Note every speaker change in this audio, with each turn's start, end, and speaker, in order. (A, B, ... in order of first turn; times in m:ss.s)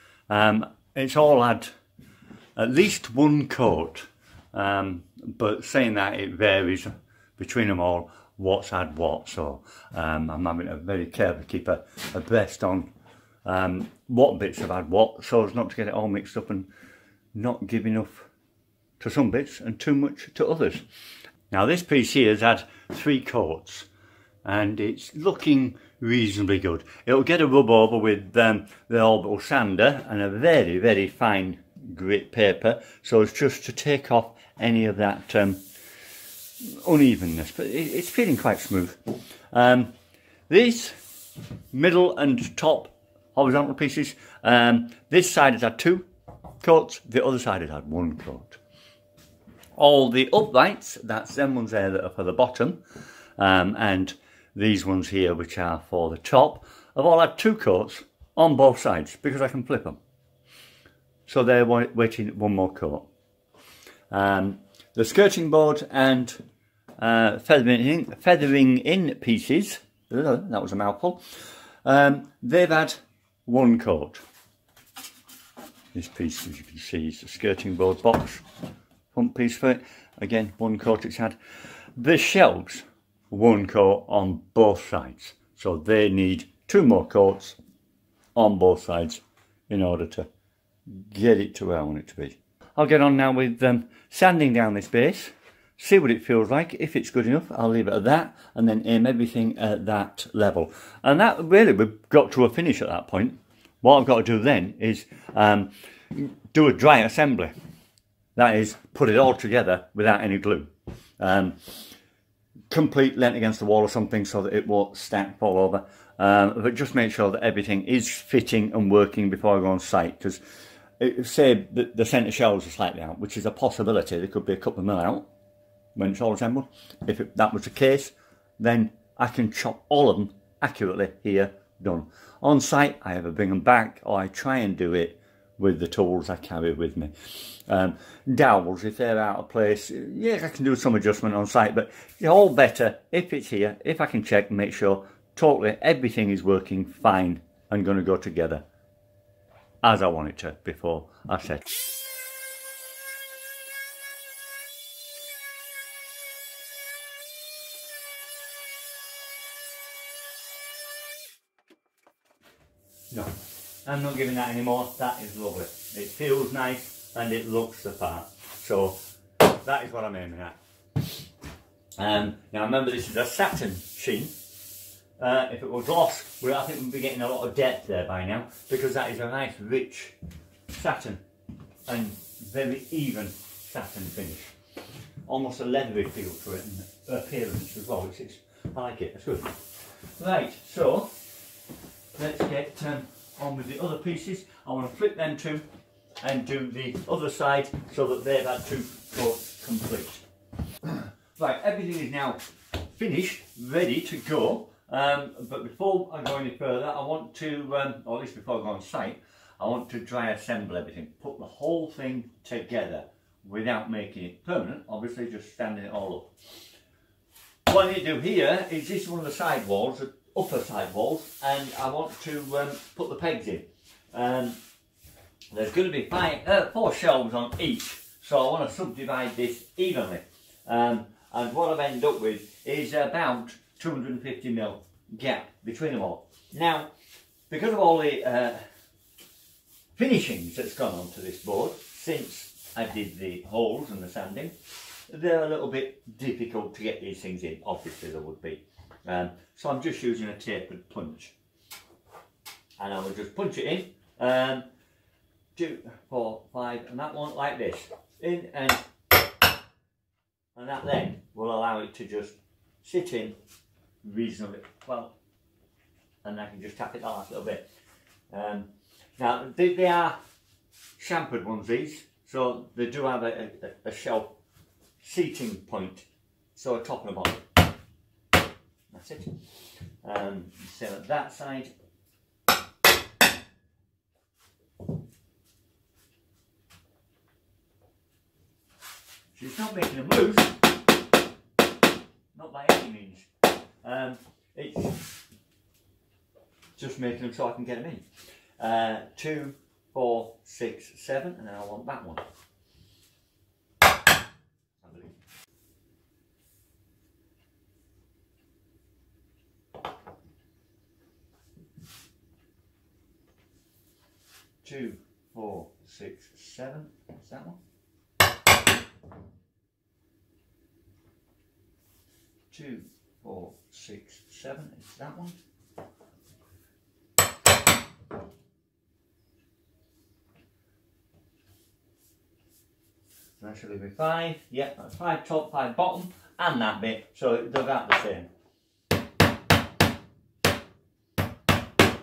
0:00.3-0:01.7 A
0:02.6-0:12.9 A
0:13.4-0:16.7 A
0:17.3-0:18.3 A
0:19.0-0:20.8 A
0:21.5-0:23.9 A
0:24.4-0:35.6 A
0:36.6-0:39.0 A
0:39.5-0:39.9 A
0:40.5-0:41.0 A
0:41.7-0:46.0 A
0:46.6-0:48.6 A
0:49.8-0:52.8 A
0:53.4-1:00.0 A
1:01.3-1:03.1 A
1:04.1-1:06.4 A
1:07.0-1:11.2 A
1:11.8-1:14.2 A
1:15.9-1:18.4 A
1:19.1-1:21.4 A
1:22.0-1:27.6 A
1:28.3-1:30.3 A
1:30.8-1:47.5 A
1:48.3-1:51.8 A
1:52.7-2:00.4 A
2:01.0-2:05.2 A
2:05.9-2:28.6 A
2:29.8-2:31.8 A
2:43.8-2:49.0 A
2:49.6-2:50.6 A
2:52.0-2:54.3 A
2:55.2-3:00.2 A
3:00.7-3:01.2 A
3:01.9-3:04.5 A
3:05.2-3:09.6 A
3:10.2-3:11.1 A
3:12.1-3:15.6 A
3:16.2-3:20.2 A
3:20.8-3:36.3 A
3:37.6-3:44.6 A
3:45.5-3:56.9 A
3:57.5-3:58.6 A
3:59.9-4:04.5 A
4:05.1-4:11.3 A
4:12.8-4:14.7 A
4:15.6-4:18.8 A
4:20.5-4:23.4 A
4:24.0-4:25.2 A
4:26.2-4:27.7 A
4:28.3-4:30.2 A
4:31.0-4:34.4 A
4:35.0-4:37.4 A
4:38.9-4:39.4 A
4:40.0-4:41.7 A
4:49.3-4:50.5 A
4:52.3-4:53.3 A
4:53.8-4:55.1 A
4:56.8-4:58.0 A
4:58.6-5:02.2 A
5:04.8-5:05.2 A
5:14.6-5:17.6 A
5:22.5-5:25.4 A
5:33.4-5:38.3 A